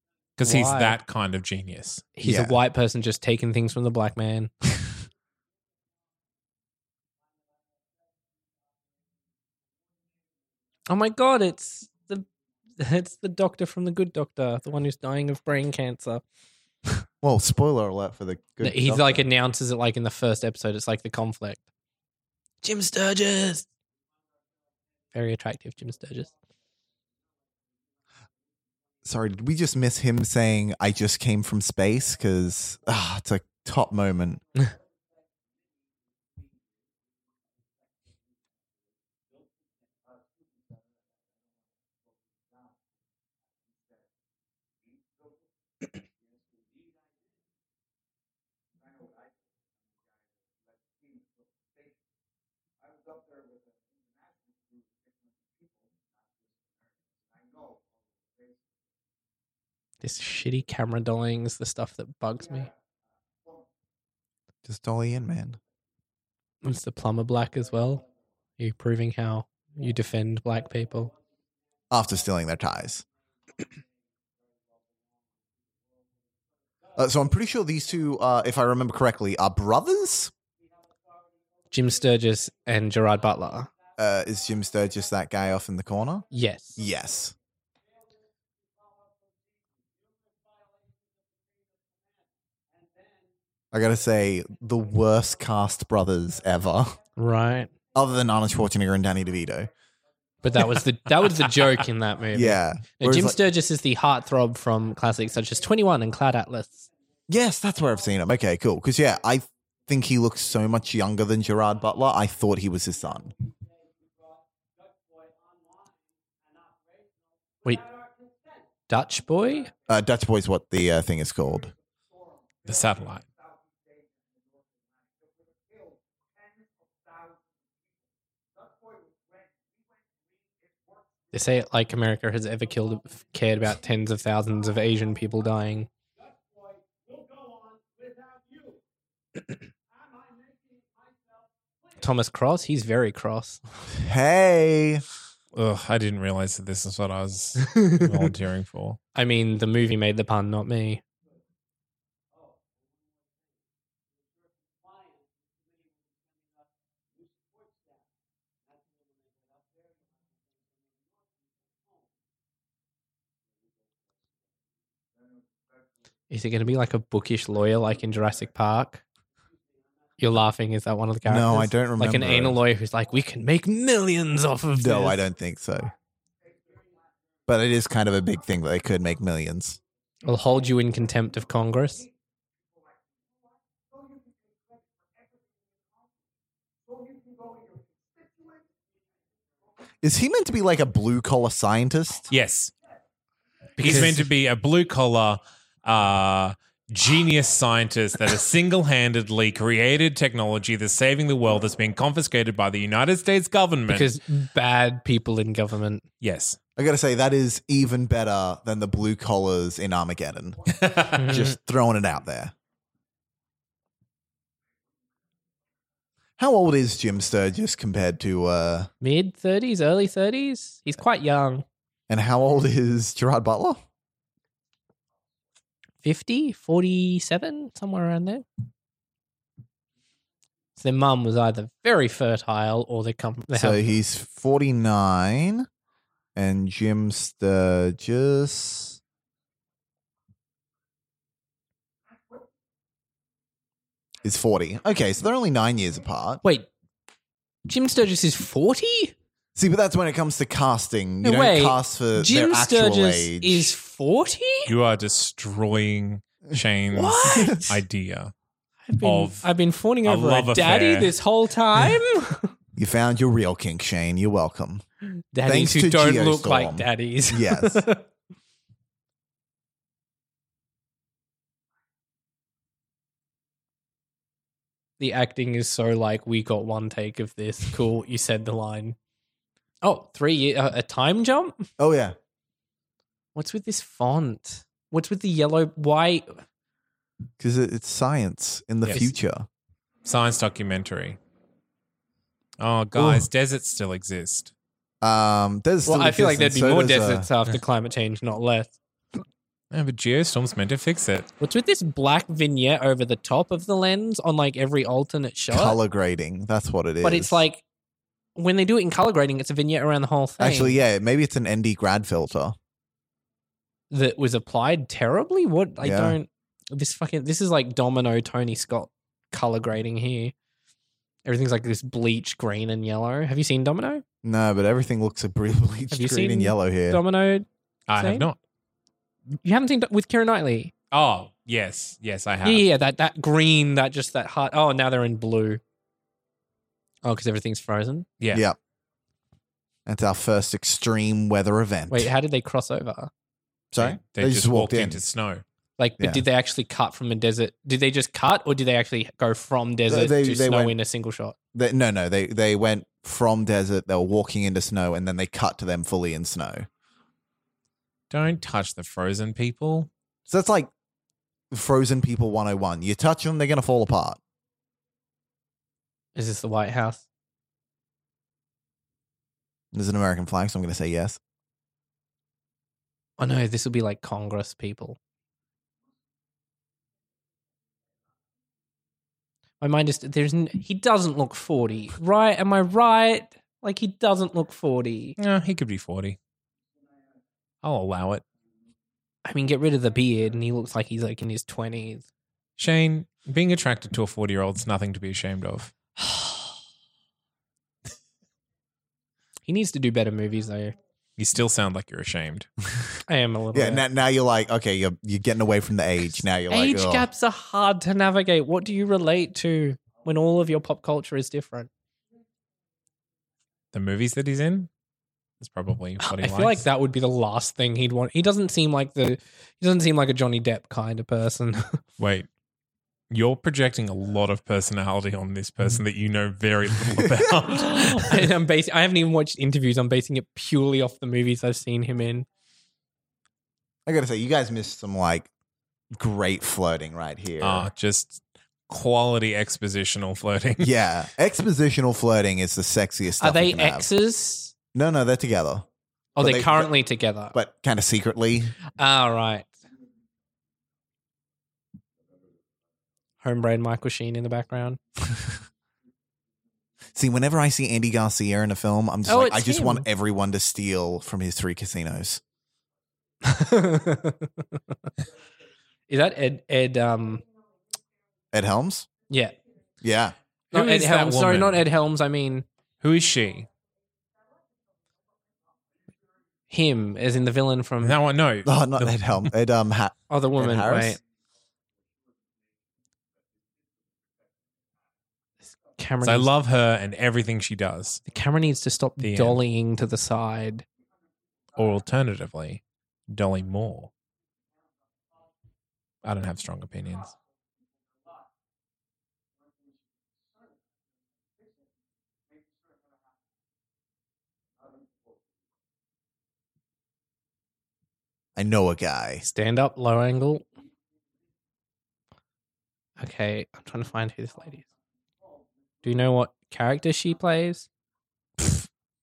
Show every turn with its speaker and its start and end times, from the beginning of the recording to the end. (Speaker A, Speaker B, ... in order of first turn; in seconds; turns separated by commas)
Speaker A: 0.4-2.1, Speaker B: 0.4-1.0, Speaker B: 2.2-4.7, Speaker C: 2.2-2.6, Speaker B: 10.9-12.3, Speaker B: 12.8-16.2, Speaker C: 17.2-19.2, Speaker B: 18.6-21.6, Speaker B: 22.6-23.7, Speaker B: 25.1-26.3, Speaker C: 29.1-34.4, Speaker B: 60.0-62.7, Speaker C: 64.7-65.6, Speaker B: 66.6-68.0, Speaker B: 68.6-71.1, Speaker C: 71.9-73.0, Speaker C: 77.0-80.3, Speaker B: 81.7-83.7, Speaker C: 84.0-86.2, Speaker B: 86.3-86.8, Speaker C: 86.8-87.3, Speaker C: 93.7-97.0, Speaker B: 97.2-97.7, Speaker C: 98.0-99.7, Speaker B: 100.4-106.9, Speaker C: 102.3-103.4, Speaker C: 107.3-113.3, Speaker B: 118.9-119.7, Speaker C: 119.9-121.7, Speaker A: 122.7-123.2, Speaker B: 131.3-135.9, Speaker B: 142.0-143.6, Speaker C: 143.9-145.0, Speaker A: 145.5-149.0, Speaker B: 149.2-151.0, Speaker B: 166.3-169.0, Speaker B: 170.2-175.2, Speaker C: 171.2-172.6, Speaker C: 174.8-175.9, Speaker C: 177.5-179.8, Speaker B: 180.2-182.1, Speaker C: 190.0-192.3, Speaker A: 192.3-192.7, Speaker B: 193.8-194.3, Speaker A: 193.8-204.1, Speaker B: 203.9-206.0, Speaker A: 206.2-206.6, Speaker C: 206.8-212.5, Speaker A: 210.8-211.2, Speaker B: 211.2-211.6, Speaker C: 216.4-218.9, Speaker B: 219.0-221.7, Speaker C: 222.1-223.8, Speaker B: 226.0-228.4, Speaker B: 230.8-233.9, Speaker C: 233.5-235.7, Speaker C: 236.3-239.0, Speaker C: 244.2-246.4, Speaker B: 246.4-246.7, Speaker B: 247.7-249.1, Speaker C: 249.6-253.7, Speaker B: 251.2-254.7, Speaker A: 254.7-258.3, Speaker B: 256.9-257.8, Speaker B: 258.9-262.5, Speaker A: 259.0-259.5, Speaker A: 260.0-261.1, Speaker C: 262.8-264.9, Speaker B: 265.3-268.1, Speaker C: 265.4-267.9, Speaker B: 275.0-279.0, Speaker B: 279.8-281.6, Speaker C: 281.8-282.2, Speaker B: 283.4-286.4, Speaker C: 287.4-289.5, Speaker A: 290.1-291.2, Speaker A: 292.6-294.5, Speaker C: 293.0-293.2, Speaker C: 295.0-297.3, Speaker B: 295.9-298.7, Speaker A: 299.7-301.3, Speaker B: 301.4-305.8, Speaker C: 305.5-307.4, Speaker B: 307.0-307.6, Speaker B: 308.4-310.8, Speaker C: 310.4-312.6, Speaker B: 313.9-320.3, Speaker C: 315.8-316.2, Speaker B: 321.2-324.0, Speaker C: 324.2-327.0, Speaker B: 325.9-328.3, Speaker A: 327.9-328.4, Speaker B: 329.4-330.7, Speaker A: 330.9-332.7, Speaker B: 332.4-335.6, Speaker B: 337.0-338.1, Speaker A: 338.2-338.4, Speaker C: 338.3-338.6, Speaker C: 339.9-342.1, Speaker B: 341.9-343.1, Speaker C: 343.7-345.0, Speaker A: 343.8-345.4, Speaker B: 345.8-351.4, Speaker C: 349.9-350.8, Speaker C: 351.5-356.7, Speaker A: 358.1-359.9, Speaker C: 360.3-360.7, Speaker C: 361.5-364.2, Speaker B: 366.2-367.0, Speaker C: 369.7-371.2, Speaker B: 373.2-375.0, Speaker B: 379.6-385.2, Speaker A: 385.2-386.2, Speaker A: 387.6-388.2, Speaker B: 389.2-392.1, Speaker A: 392.6-395.7, Speaker B: 399.5-400.8, Speaker A: 401.2-402.5, Speaker B: 403.1-403.8, Speaker C: 403.5-407.1, Speaker B: 406.1-411.7, Speaker A: 413.7-414.7, Speaker A: 415.4-416.6, Speaker B: 416.0-421.8, Speaker A: 422.0-422.3, Speaker A: 423.1-428.3, Speaker B: 427.5-432.3, Speaker C: 433.9-435.3, Speaker C: 435.9-437.7, Speaker A: 437.4-440.7, Speaker C: 440.6-443.9, Speaker B: 443.2-444.5, Speaker C: 444.7-445.7, Speaker B: 446.2-447.4, Speaker C: 446.2-446.7, Speaker C: 447.3-448.6, Speaker B: 448.8-449.5, Speaker B: 453.2-454.8, Speaker C: 456.9-462.2, Speaker B: 459.1-459.9, Speaker B: 463.2-464.6, Speaker B: 465.9-467.2, Speaker C: 468.3-468.9, Speaker B: 469.1-469.4, Speaker C: 469.8-470.2, Speaker A: 470.5-471.7, Speaker B: 470.5-472.4, Speaker A: 472.8-473.5, Speaker B: 476.5-478.0, Speaker A: 477.8-479.3, Speaker C: 478.4-481.0, Speaker B: 480.1-481.0, Speaker B: 485.8-486.3, Speaker A: 486.0-488.0, Speaker B: 488.1-490.6, Speaker A: 489.0-489.4, Speaker A: 491.6-493.9, Speaker A: 496.0-497.1, Speaker C: 508.4-509.2, Speaker B: 509.2-510.5, Speaker B: 513.0-514.7, Speaker B: 515.8-517.7